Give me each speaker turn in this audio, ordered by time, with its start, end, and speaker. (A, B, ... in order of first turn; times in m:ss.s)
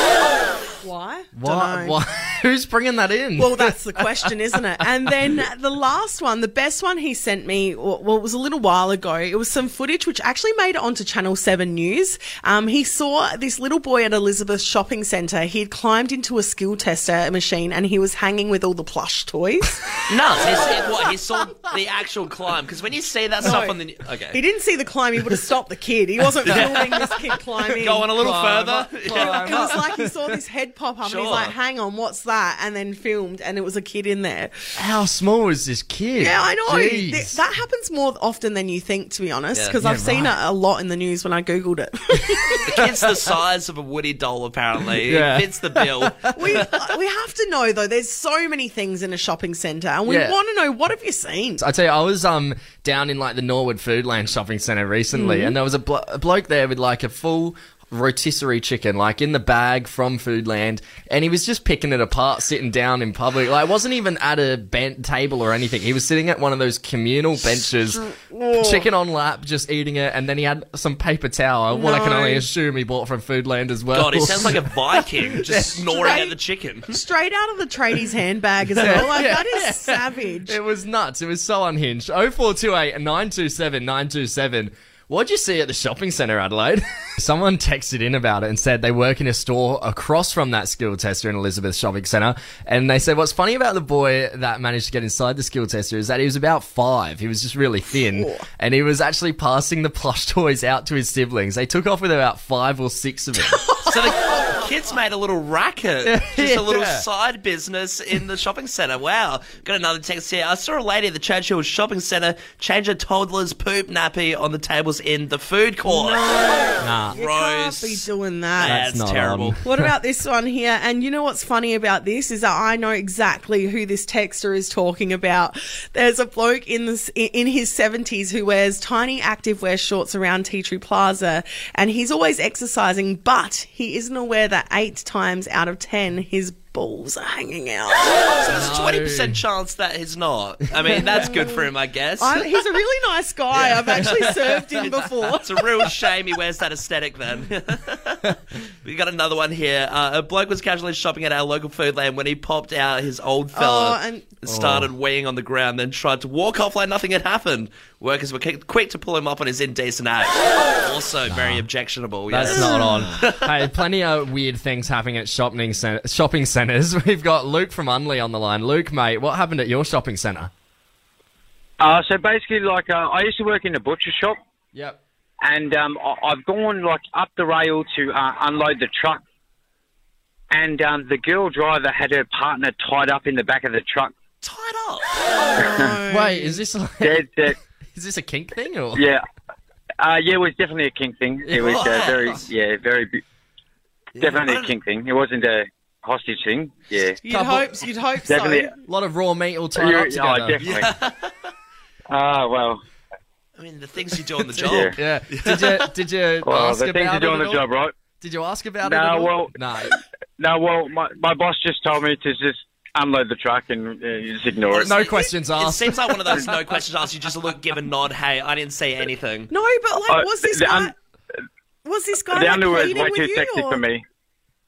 0:00.8-0:02.0 A
0:01.4-0:05.4 B
0:03.4-0:20.0 A
0:20.1-0:24.4 C
0:23.4-0:23.8 A
0:24.3-0:28.1 A
0:26.4-0:27.2 C
0:27.8-0:29.8 C
0:27.9-0:30.4 B
0:29.1-0:34.5 A
0:31.0-0:31.6 C
0:34.8-0:37.4 B
0:36.2-0:42.7 A
0:39.8-0:40.3 B
0:42.6-0:46.7 C
0:42.7-0:43.1 B
0:45.0-0:46.6 B
0:46.3-0:51.6 A
0:50.1-0:50.4 B
0:51.6-1:08.0 B
0:55.1-0:55.6 A
1:07.5-1:08.9 A
1:08.6-1:15.7 B
1:11.7-1:12.4 A
1:13.9-1:16.9 C
1:15.9-1:16.4 A
1:16.9-1:20.6 A
1:18.8-1:43.6 B
1:38.1-1:38.5 A
1:43.4-1:44.6 A
1:43.9-1:56.4 C
1:46.0-1:47.0 B
1:55.9-1:58.9 A
1:56.8-1:57.2 B
1:57.1-1:59.6 C
1:58.6-1:59.9 B
1:59.6-2:18.4 A
2:18.4-2:22.6 C
2:18.5-2:19.4 B
2:20.8-2:25.5 A
2:23.5-2:43.6 C
2:33.5-2:34.3 A
2:34.5-2:34.9 B
2:41.3-2:41.7 B
2:42.2-2:50.5 B
2:42.5-2:42.8 A
2:51.8-2:54.4 D
2:54.7-2:55.0 B
2:55.4-2:59.2 D
3:00.5-3:04.1 D
3:04.4-3:05.5 C
3:05.5-3:06.6 A
3:05.6-3:05.9 D
3:06.1-3:07.2 B
3:07.0-3:07.6 D
3:07.9-3:09.1 B
3:09.0-3:09.2 D
3:10.0-3:13.2 D
3:11.4-3:12.4 B
3:11.7-3:12.5 C
3:14.2-3:14.8 C
3:14.2-3:17.2 D
3:17.2-3:18.7 A
3:17.3-3:17.7 B
3:18.3-3:18.7 D
3:18.8-3:20.7 B
3:19.8-3:20.9 D
3:20.6-3:21.3 C
3:22.1-3:22.8 D
3:23.6-3:25.9 C
3:24.6-3:27.6 B
3:24.6-3:24.9 D
3:26.4-3:27.9 D
3:28.2-3:30.0 B
3:28.8-3:35.0 D
3:34.7-3:39.5 C
3:34.8-3:36.4 B
3:39.5-3:41.0 A
3:40.1-3:40.9 D
3:41.8-3:43.8 A
3:42.3-3:44.0 D